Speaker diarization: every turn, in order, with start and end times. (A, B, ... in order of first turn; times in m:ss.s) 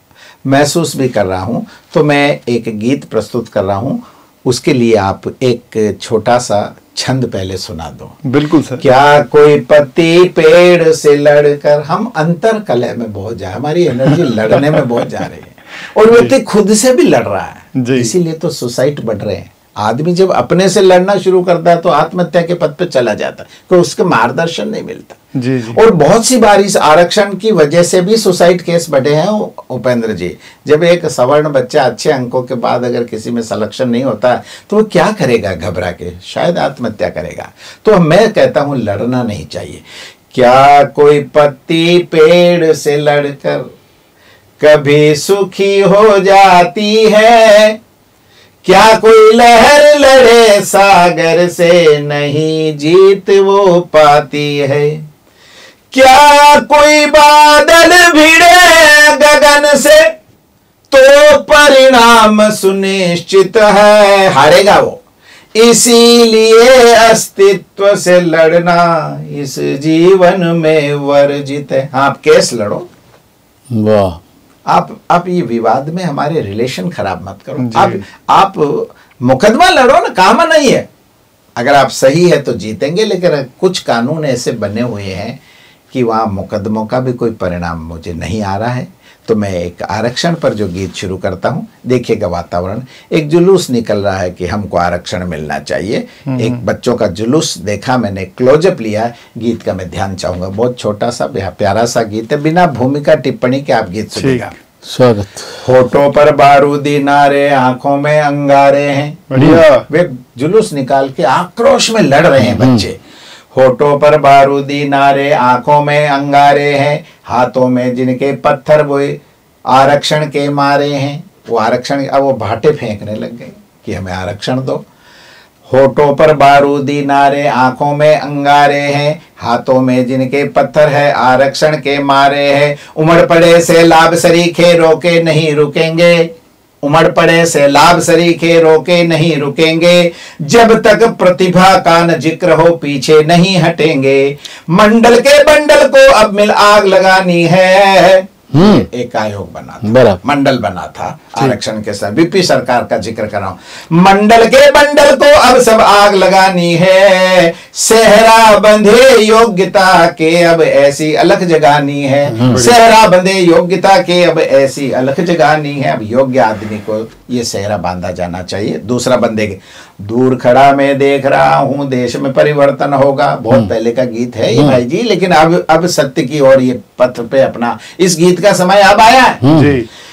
0:00.5-0:08.2 A
0:08.2-0:08.8 B
0:08.8-0:43.7 A
0:14.1-0:14.8 B
0:17.8-0:18.1 B
0:25.3-0:25.8 B
0:44.6-0:47.8 A
0:48.6-0:55.0 A
0:55.9-1:00.0 A
1:00.9-1:05.0 A
1:05.6-1:12.9 A
1:13.7-1:14.2 C
1:14.7-1:20.9 A
1:17.6-1:18.0 B
1:21.6-1:25.4 A
1:25.9-1:44.5 A
1:36.3-1:36.6 B
1:44.2-1:44.5 B
1:44.8-1:45.6 C
1:45.6-1:53.0 A
1:49.3-1:49.9 B
1:52.4-1:52.8 C
1:53.5-2:04.8 A
2:05.7-2:16.3 A
2:16.8-2:59.4 A
2:28.5-2:28.9 C
2:29.8-2:30.2 C
2:42.3-2:42.6 C
2:42.5-2:42.8 B
2:54.5-2:54.8 C
2:59.4-2:59.8 C
2:59.5-2:59.9 B